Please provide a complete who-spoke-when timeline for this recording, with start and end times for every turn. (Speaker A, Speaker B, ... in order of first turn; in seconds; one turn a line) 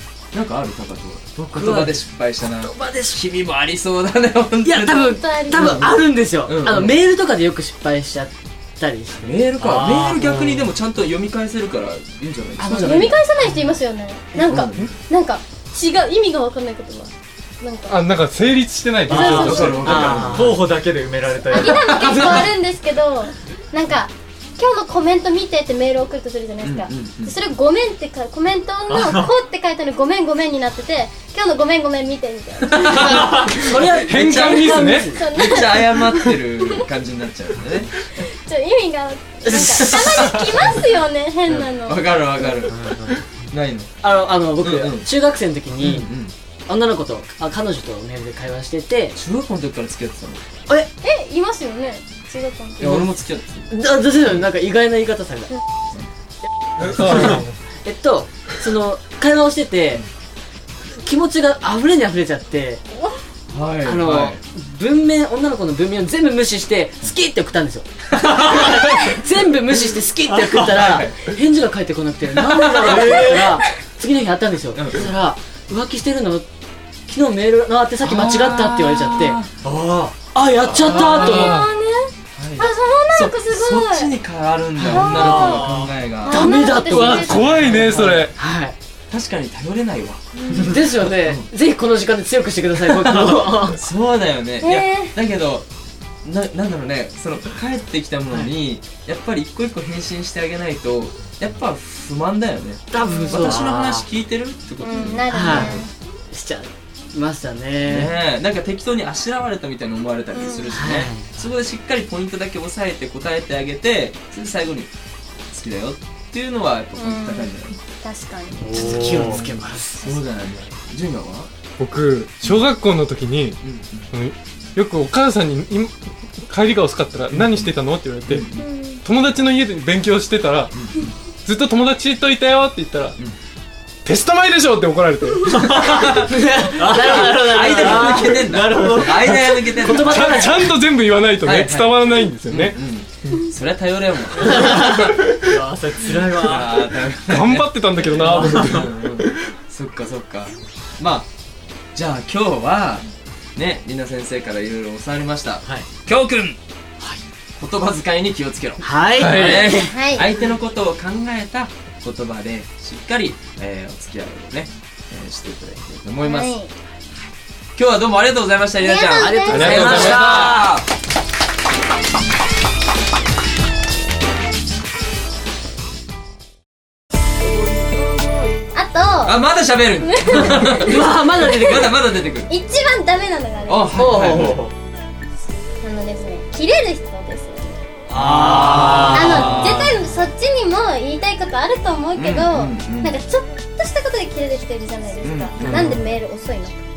Speaker A: 0.3-7.0
Speaker B: 1.4-3.2
Speaker B: 4.6-10.2
Speaker C: 4.9-5.9
Speaker A: 9.1-13.2
Speaker D: 9.6-10.6
Speaker B: 12.6-13.8
Speaker C: 12.6-18.0
Speaker A: 14.4-14.9
Speaker E: 17.9-20.1
Speaker C: 19.1-19.6
Speaker D: 19.1-22.4
Speaker A: 19.1-20.6
Speaker B: 19.5-20.6
Speaker C: 21.4-33.4
Speaker B: 21.9-22.5
Speaker A: 26.6-27.4
Speaker D: 28.9-29.3
Speaker B: 32.8-35.2
Speaker A: 32.8-33.5
Speaker E: 34.0-35.1
Speaker A: 34.1-37.9
Speaker C: 35.1-36.8
Speaker C: 38.2-42.7
Speaker B: 39.4-40.7
Speaker A: 41.5-43.0
Speaker D: 42.7-43.2
Speaker A: 43.5-43.9
Speaker B: 44.0-46.1
Speaker A: 44.6-45.1
Speaker A: 45.8-46.3
Speaker B: 46.7-49.1
Speaker A: 49.1-50.5
Speaker C: 51.0-52.9
Speaker A: 52.8-53.7
Speaker B: 52.8-53.1
Speaker B: 53.7-55.5
Speaker E: 56.8-57.5
Speaker B: 56.9-60.0
Speaker B: 61.0-62.8
Speaker A: 63.5-64.4
Speaker B: 63.8-76.5
Speaker A: 70.5-71.2
Speaker A: 72.7-73.2
Speaker D: 72.9-73.3
Speaker A: 74.7-75.0
Speaker B: 77.1-79.4
Speaker A: 78.0-79.5
Speaker D: 79.6-80.2
Speaker B: 80.3-81.6
Speaker A: 80.7-81.4
Speaker E: 80.8-81.7
Speaker C: 81.4-84.1
Speaker A: 82.3-88.3
Speaker D: 84.8-85.8
Speaker C: 84.9-87.9
Speaker B: 86.3-87.5
Speaker E: 87.1-88.3
Speaker B: 88.3-88.7
Speaker A: 89.1-90.2
Speaker C: 90.4-90.8
Speaker B: 90.6-93.8
Speaker A: 92.9-95.7
Speaker C: 94.6-95.1
Speaker A: 96.2-105.8
Speaker B: 102.9-104.0
Speaker C: 103.0-103.4
Speaker D: 103.5-103.8
Speaker C: 104.8-105.9
Speaker B: 105.3-108.1
Speaker A: 107.8-114.9
Speaker C: 110.3-110.8
Speaker B: 110.7-111.3
Speaker A: 115.5-117.8
Speaker C: 117.0-118.8
Speaker D: 118.6-119.5
Speaker B: 118.7-120.2
Speaker A: 118.8-121.5
Speaker E: 121.8-123.6
Speaker A: 123.6-124.0
Speaker E: 124.1-125.9
Speaker E: 126.5-128.4
Speaker A: 127.3-127.7
Speaker A: 128.3-128.6
Speaker C: 128.5-129.0
Speaker E: 129.0-130.7
Speaker A: 130.7-131.1
Speaker E: 131.4-133.2
Speaker E: 134.0-135.6
Speaker D: 135.5-136.1
Speaker A: 135.7-140.4
Speaker B: 136.2-140.7
Speaker D: 136.8-139.2
Speaker E: 139.3-143.4
Speaker A: 141.4-145.2
Speaker E: 144.7-145.6
Speaker D: 145.5-147.0
Speaker A: 146.3-151.3
Speaker E: 147.3-149.3
Speaker D: 148.4-148.8
Speaker A: 151.9-156.6
Speaker A: 157.6-166.6
Speaker B: 158.8-159.9
Speaker E: 159.2-159.5
Speaker C: 159.6-160.3
Speaker C: 166.2-166.7
Speaker A: 167.2-170.9
Speaker C: 168.8-169.8
Speaker B: 169.2-170.7
Speaker E: 169.5-170.5
Speaker C: 178.7-179.4
Speaker A: 179.2-182.5
Speaker C: 180.0-181.8
Speaker B: 180.7-181.9
Speaker C: 182.5-183.9
Speaker A: 183.7-184.6
Speaker B: 183.9-184.6
Speaker D: 184.0-184.7
Speaker C: 185.8-187.8
Speaker B: 188.1-189.5
Speaker A: 188.1-189.9
Speaker C: 189.1-196.8
Speaker A: 192.1-193.2
Speaker A: 195.2-196.0